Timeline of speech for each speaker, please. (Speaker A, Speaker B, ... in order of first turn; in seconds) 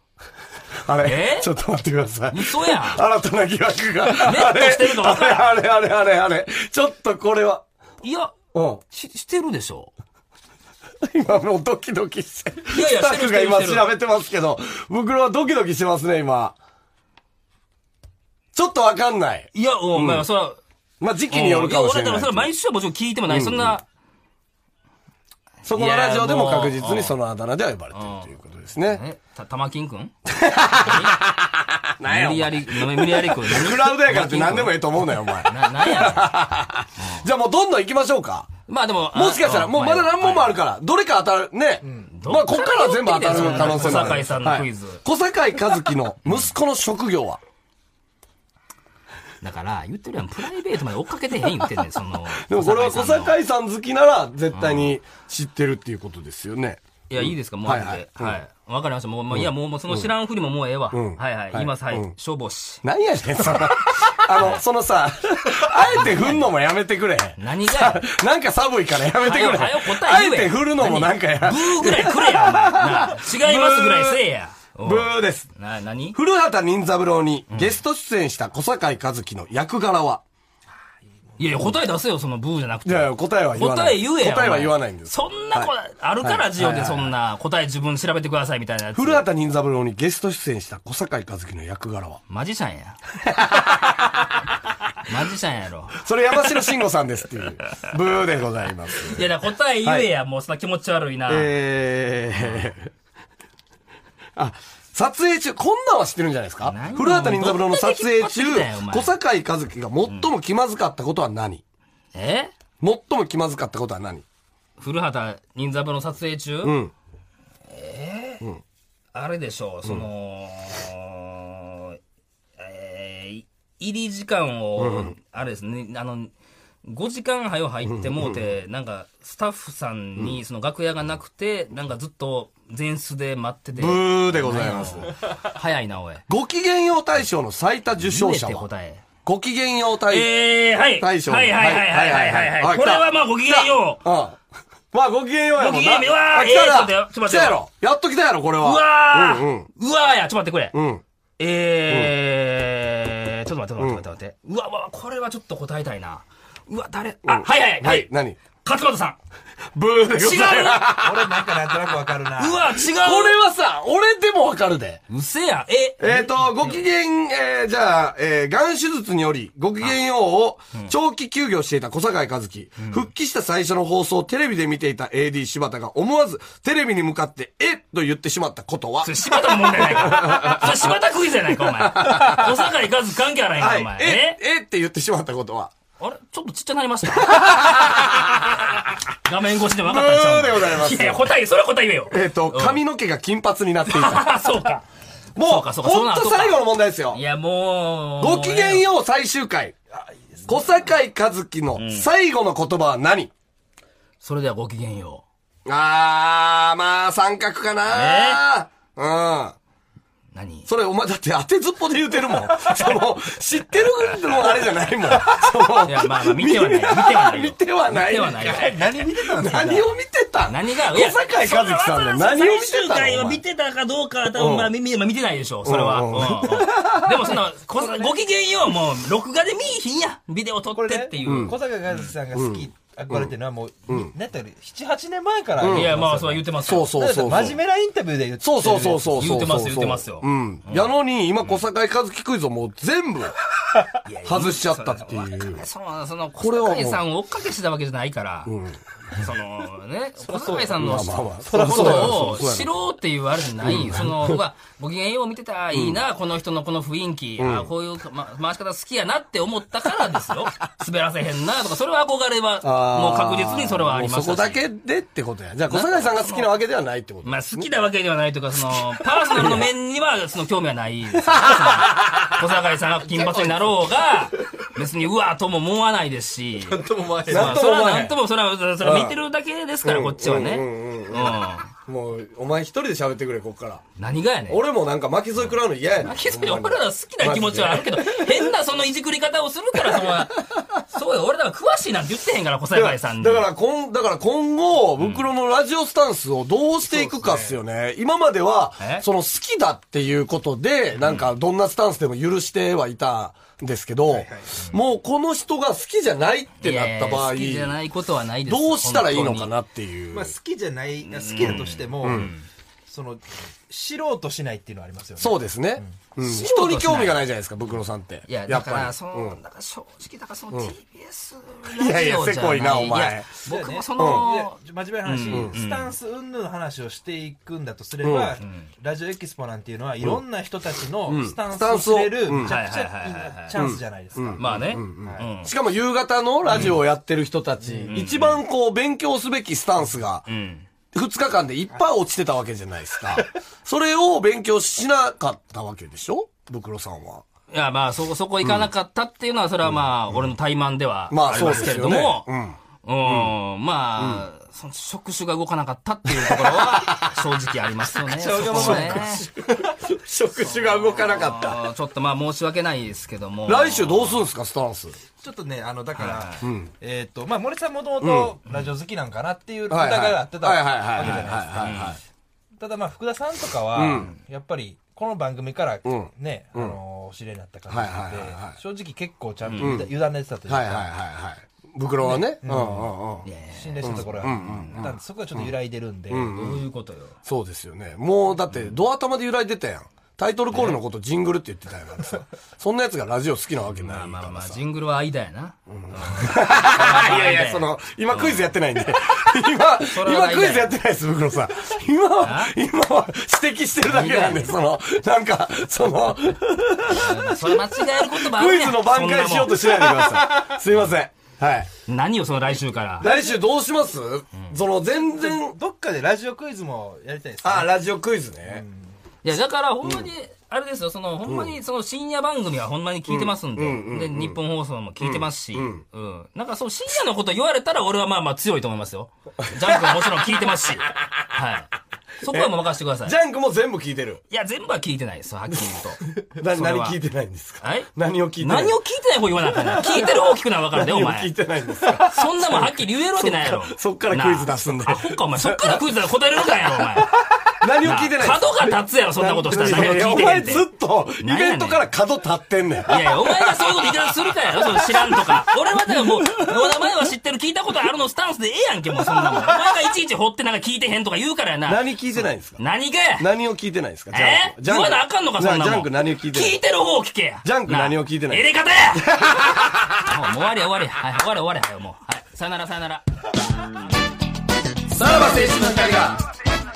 Speaker A: 0.8-7.6, 8.5-8.8, 11.0-16.6, 18.5-20.2, 21.0-22.5, 23.3-23.7, 25.6-29.0, 30.2-38.5, 39.1-47.4, 52.3-58.4, 59.3-60.1, 60.9-62.1, 62.8-74.2, 74.8-75.5, 76.1-80.2, 82.8-87.1, 88.9-92.2, 93.2-94.5, 95.9-99.2, 99.8-100.1, 101.3-102.9, 104.3-111.6, 112.8-114.2, 116.6-116.9, 124.8-125.1, 127.8-128.4, 133.8-135.1, 136.3-138.7, 139.2-140.3, 140.9-144.4, 144.9-149.7, 150.7-151.0, 151.9-152.1, 157.2-158.4, 159.7-161.4, 162.9-165.0, 166.0-182.7, 183.6-185.7, 187.2-188.7, 189.8-191.3, 192.1-194.5, 195.3-197.2, 198.2-199.8, 200.4-203.3, 205.7-209.6, 210.7-223.4, 224.3-224.7, 225.6-227.4, 231.2-231.5, 232.3-233.3, 235.6-236.0, 236.6-237.6, 238.4-243.3, 244.2-245.6, 246.4-247.0, 248.5-248.8, 250.8-252.7, 253.6-254.4, 255.7-256.0, 257.4-257.7, 262.6-267.6, 269.3-269.7, 271.2-272.4, 277.3-278.2, 278.8-279.2, 279.8-283.8, 284.5-288.5, 292.7-307.7, 308.4-310.3, 312.0-312.3, 315.2-319.4, 321.6-323.3, 324.0-324.2, 328.0-328.4, 331.1-332.5, 333.5-340.2, 340.9-347.2, 349.6-350.2, 351.1-353.3, 354.0-354.2, 356.1-357.2, 357.9-361.7, 363.4-364.9, 366.4-366.7, 368.0-368.3, 369.7-372.0, 373.7-374.1, 375.8-376.8, 377.7-378.6, 379.6-379.9, 380.5-383.3, 383.8-385.5, 386.1-386.6, 387.2-394.6, 395.7-411.7, 413.0-415.6, 417.4-418.6, 421.2-421.6, 423.1-424.4, 425.0-425.8, 429.4-431.4, 432.3-434.2, 435.5-435.8, 436.3-438.8, 439.7-445.8, 447.6-456.6, 461.6-462.6, 463.2-466.6, 467.4-470.1, 474.9-476.2
Speaker B: 1.0-1.5, 2.3-3.0, 4.2-5.5, 8.0-8.3, 8.9-9.9, 12.7-13.9, 19.5-20.6, 21.3-23.8, 25.6-27.1, 27.9-30.1, 30.7-31.2, 32.0-36.3, 38.7-40.6, 42.1-45.0, 49.4-53.3, 54.5-54.9, 57.1-62.8, 64.0-64.6, 65.7-66.5, 67.4-68.0, 69.2-76.2, 77.5-77.8, 81.4-89.3, 92.3-93.0, 95.0-96.0, 99.1-101.5, 102.4-102.6, 106.6-109.1, 112.1-112.5, 114.8-116.8, 117.7-118.5, 119.1-122.0, 122.6-126.3, 126.8-136.2, 138.0-139.0, 140.1-144.0, 145.6-147.6, 148.6-150.7, 151.4-159.2, 160.1-160.9, 162.4-163.4, 165.1-166.7, 172.8-173.1, 179.0-184.4, 186.0-192.8, 193.9-194.8, 195.4-198.9, 201.8-202.1, 204.2-205.2, 207.9-208.4, 210.3-210.7, 214.1-214.4, 215.8-218.9, 220.4-232.0, 235.6-237.0, 239.2-240.9, 244.0-248.5, 249.1-264.6, 265.7-266.5, 267.2-281.7, 284.0-284.6, 286.0-293.5, 295.0-295.2, 298.8-299.0, 306.6-309.5, 311.1-312.4, 316.2-317.2, 318.3-325.9, 328.4-328.7, 332.3-333.6, 334.4-335.5, 336.5-336.8, 337.9-338.4, 340.3-340.6, 347.5-352.3, 352.8-359.2, 360.9-364.2, 366.0-366.4, 371.6-372.0, 379.4-379.8, 383.2-384.9, 386.3-387.2, 393.7-398.5, 399.8-400.7, 402.2-402.5, 403.8-404.5, 406.9-409.6, 411.9-413.1, 419.2-433.1, 434.3-437.0, 437.6-441.3, 442.0-447.1, 447.8-450.7, 451.2-451.8, 452.9-463.3, 464.1-469.2, 470.0-473.0
Speaker C: 43.3-44.1, 161.0-162.8, 200.0-200.7, 215.2-215.5, 218.2-219.9, 227.7-228.2, 230.7-239.2, 250.2-250.8, 251.4-252.3, 276.6-277.6, 296.9-297.6, 304.1-304.5, 310.1-312.3, 312.9-315.9, 323.4-335.3, 337.6-337.9, 358.5-359.7, 365.2-371.9, 372.6-380.9, 382.0-382.9, 383.5-386.3, 409.7-410.5, 413.0-413.4, 415.0-417.8, 418.4-418.9